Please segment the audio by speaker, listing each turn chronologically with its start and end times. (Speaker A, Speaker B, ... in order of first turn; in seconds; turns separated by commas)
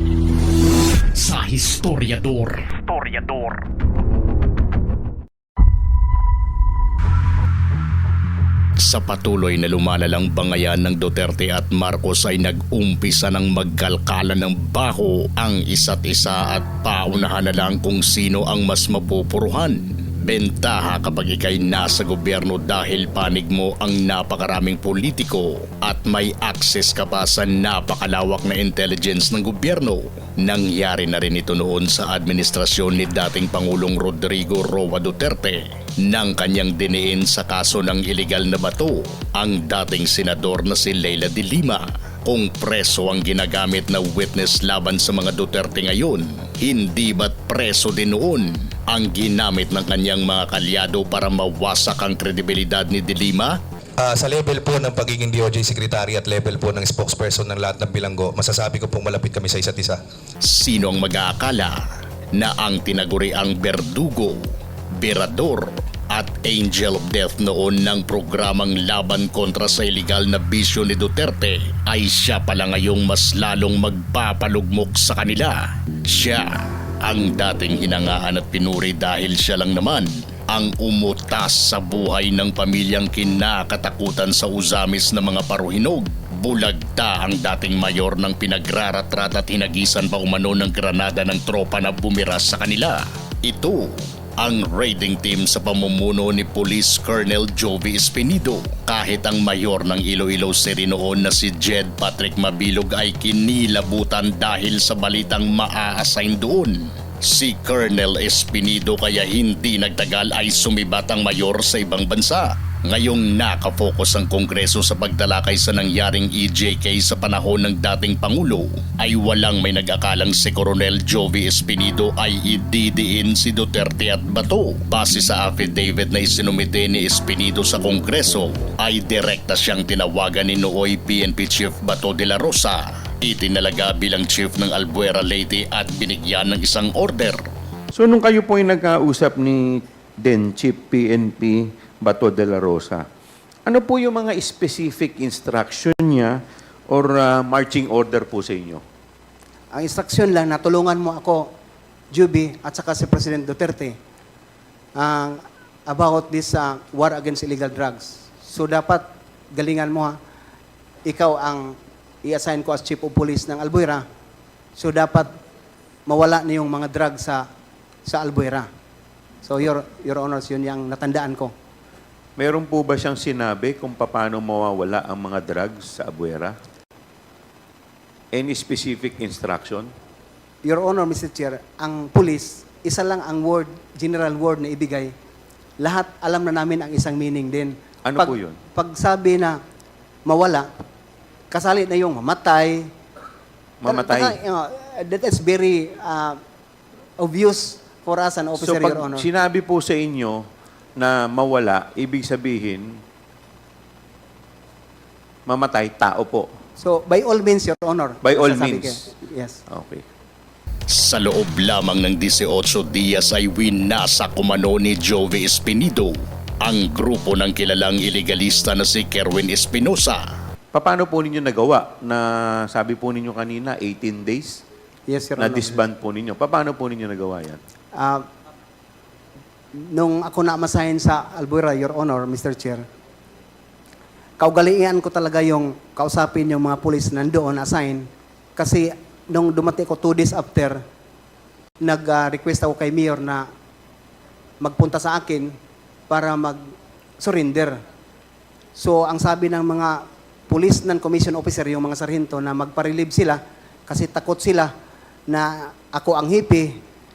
Speaker A: 1.1-3.6, Speaker A: 8.8-53.5, Speaker B: 54.0-60.0, Speaker A: 60.5-61.8, Speaker A: 62.4-64.4, Speaker A: 65.0-75.6, Speaker A: 76.1-137.4, Speaker C: 137.9-143.1, Speaker C: 143.7-146.4, Speaker C: 146.9-148.8, Speaker D: 149.7-151.5, Speaker D: 152.1-154.0, Speaker D: 155.0-160.2, Speaker D: 161.1-164.1, Speaker D: 164.8-165.3, Speaker D: 166.1-167.4, Speaker D: 168.1-168.7, Speaker D: 169.4-171.5, Speaker C: 172.4-176.6, Speaker C: 178.3-179.9, Speaker D: 180.7-185.1, Speaker D: 185.8-189.6, Speaker C: 188.1-188.6, Speaker D: 190.3-190.7, Speaker D: 191.5-192.9, Speaker C: 193.8-194.4, Speaker D: 193.9-196.4, Speaker D: 197.2-199.3, Speaker C: 198.6-200.4, Speaker C: 201.0-203.0, Speaker C: 205.5-206.5, Speaker D: 206.8-209.6, Speaker C: 208.2-209.0, Speaker C: 209.7-210.1, Speaker A: 210.9-220.2, Speaker C: 220.7-224.6, Speaker D: 225.1-225.8, Speaker C: 225.4-227.6, Speaker D: 228.0-228.2, Speaker D: 229.8-232.8, Speaker D: 234.4-240.8, Speaker D: 241.8-243.5, Speaker D: 244.6-245.5, Speaker D: 246.1-246.6, Speaker D: 247.2-247.8, Speaker D: 248.8-254.7, Speaker D: 255.3-256.8